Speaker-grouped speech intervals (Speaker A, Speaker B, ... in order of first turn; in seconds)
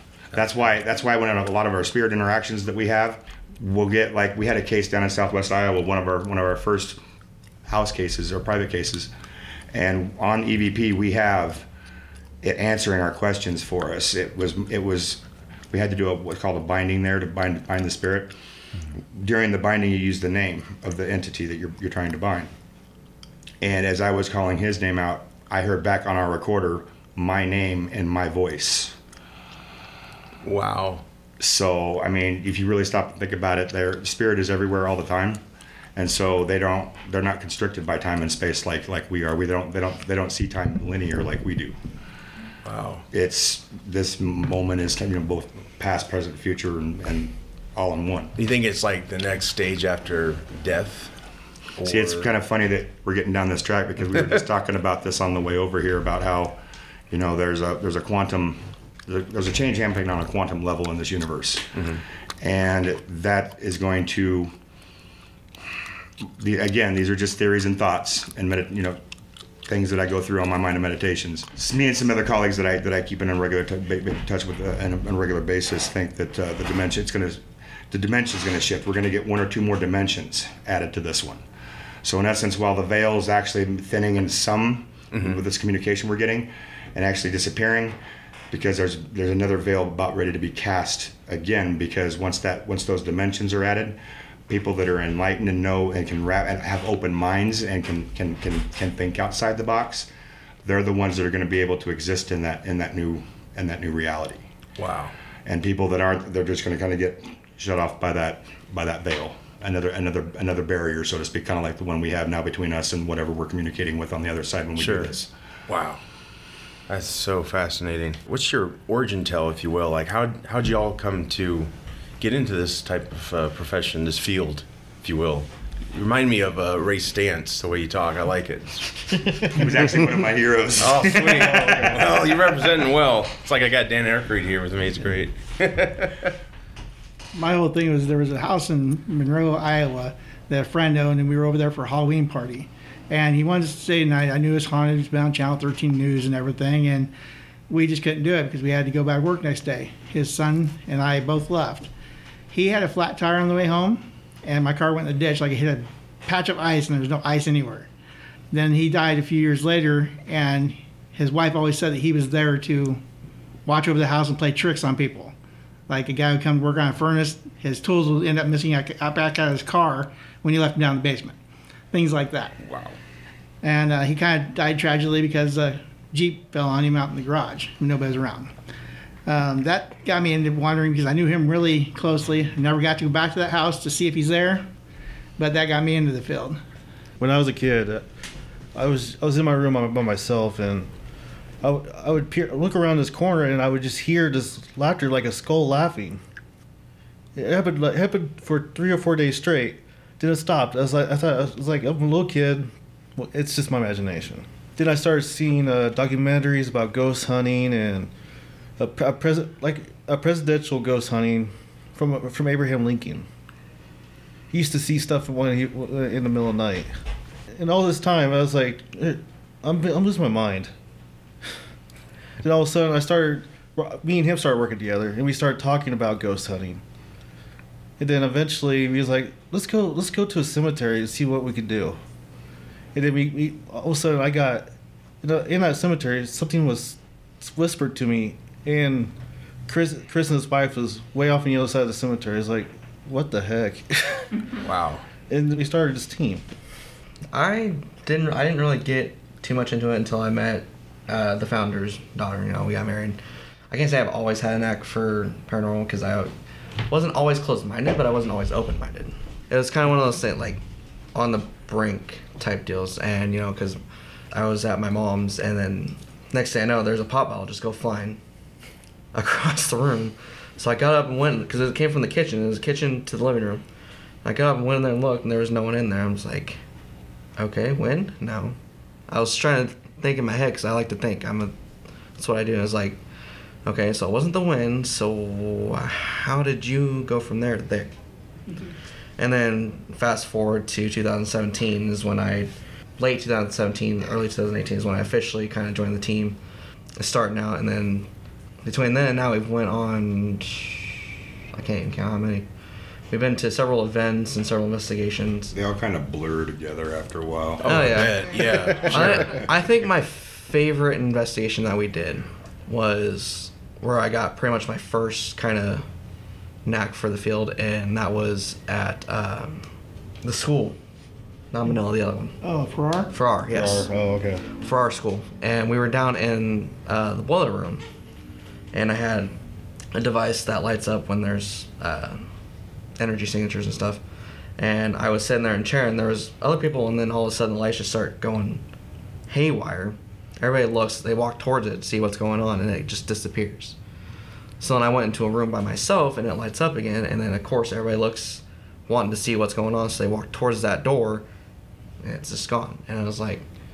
Speaker A: 0.3-7.0, 7.7-9.1, 9.7-11.7, 12.4-18.4, 19.1-22.5, 23.6-29.0, 31.4-35.4, 36.0-41.8, 43.1-48.4, 51.8-56.6, 57.1-61.8, 62.4-64.5, 66.2-69.0, 69.7-81.4, 82.0-88.0, 88.5-94.0, 94.5-100.1, 100.6-104.5, 105.5-115.3, 129.5-132.1, 305.5-308.1
Speaker B: 30.4-31.0, 42.6-43.1, 48.4-51.1, 51.8-52.3, 61.8-62.0, 85.1-85.4, 104.8-105.1, 114.8-115.1, 115.7-116.0, 116.9-128.9, 130.8-136.3, 172.6-172.9, 244.6-245.0, 307.6-309.4
Speaker C: 131.2-132.2, 187.2-188.1, 188.8-190.9, 191.6-196.2, 197.4-208.1, 208.8-213.3, 214.5-216.9, 217.5-220.7, 222.4-226.8, 228.0-232.0, 232.9-234.7, 235.2-239.1, 239.7-244.3, 245.3-246.5, 308.5-308.9, 323.5-324.4
Speaker D: 137.3-147.1, 147.7-151.9, 152.5-157.9, 158.5-163.0, 163.7-165.3, 165.9-171.4, 171.9-172.5, 173.6-178.5, 179.3-184.7, 185.4-186.6, 322.4-323.1
Speaker E: 247.3-253.2, 253.7-256.3, 256.9-260.6, 261.1-263.8, 264.3-268.2, 269.1-273.6, 274.2-276.6, 277.4-278.6, 279.1-281.5, 282.2-283.0, 283.6-287.9, 289.2-296.4, 297.0-298.1, 298.6-301.0, 301.5-302.5, 303.1-305.5, 307.6-315.9, 316.6-319.7, 320.2-320.8, 321.5-322.4, 323.1-323.9, 324.6-327.8, 328.7-329.3, 329.9-332.2, 333.0-334.0, 334.6-338.6, 339.3-343.8, 344.6-351.2, 352.0-353.4